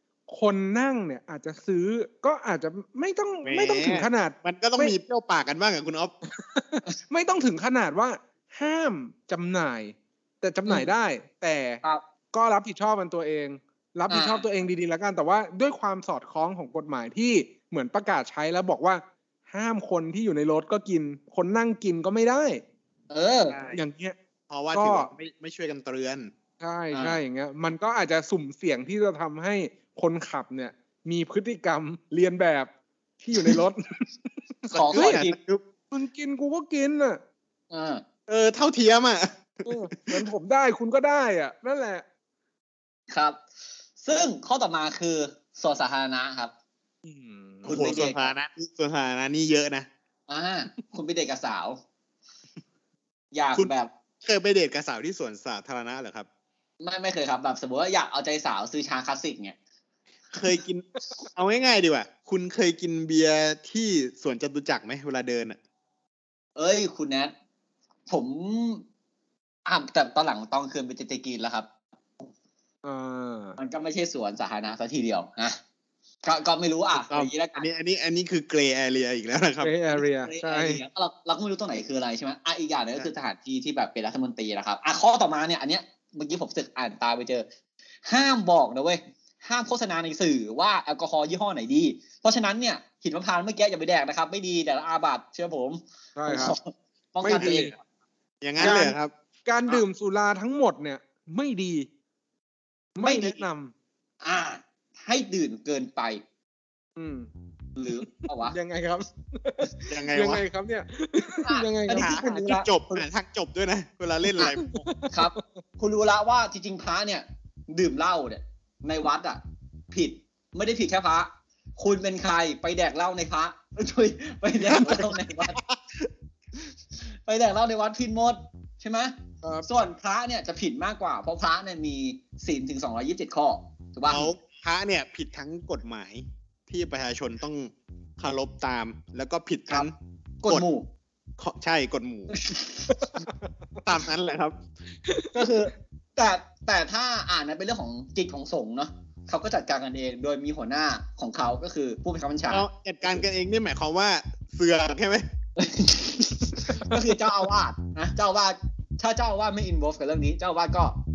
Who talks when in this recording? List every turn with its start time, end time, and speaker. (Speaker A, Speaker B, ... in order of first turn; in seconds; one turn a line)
Speaker A: 0.3-5.0
Speaker B: 3.4-6.1
Speaker A: 6.3-11.8
Speaker C: 10.7-10.9
Speaker A: 12.3-22.6
Speaker C: 14.1-14.4
Speaker C: 23.1-23.6
Speaker B: 23.5-23.8
Speaker A: 23.7-24.1
Speaker B: 24.5-26.3
Speaker A: 24.7-25.1
Speaker A: 26.6-34.1
Speaker C: 26.9-27.2
Speaker A: 34.6-35.2
Speaker B: 34.7-35.6
Speaker C: 34.7-35.3
Speaker A: 35.9-37.2
Speaker C: 37.7-38.0
Speaker B: 38.3-40.2
Speaker A: 39.6-42.0
Speaker C: 43.1-43.4
Speaker C: 44.0-46.5
Speaker A: 47.0-47.7
Speaker C: 47.6-48.3
Speaker B: 47.7-49.9
Speaker C: 50.3-51.8
Speaker C: 53.3-53.9
Speaker B: 54.2-56.3
Speaker C: 56.8-59.5
Speaker B: 60.3-65.6
Speaker C: 66.5-67.3
Speaker C: 68.1-68.8
Speaker C: 69.7-71.7
Speaker A: 72.8-73.5
Speaker C: 73.6-75.6
Speaker C: 76.2-77.7
Speaker B: 77.0-79.7
Speaker A: 79.6-80.8
Speaker C: 80.2-87.5
Speaker C: 88.0-97.8
Speaker A: 96.2-96.5
Speaker A: 97.2-97.7
Speaker B: 97.3-97.7
Speaker B: 98.4-99.1
Speaker C: 98.6-98.8
Speaker A: 98.6-98.9
Speaker A: 99.5-101.9
Speaker A: 103.0-103.7
Speaker C: 103.0-103.4
Speaker C: 104.2-106.2
Speaker A: 107.0-107.3
Speaker C: 107.8-108.5
Speaker A: 108.5-112.3
Speaker B: 109.9-110.4
Speaker C: 111.4-112.7
Speaker B: 111.9-114.8
Speaker C: 114.3-119.4
Speaker A: 114.8-115.6
Speaker C: 119.9-125.6
Speaker B: 124.6-126.1
Speaker C: 127.3-129.1
Speaker C: 129.6-134.3
Speaker B: 134.1-140.6
Speaker C: 140.4-140.9
Speaker B: 141.4-142.3
Speaker C: 142.3-142.9
Speaker B: 143.8-144.6
Speaker A: 145.1-145.4
Speaker C: 145.3-152.6
Speaker B: 152.5-155.2
Speaker C: 155.6-161.0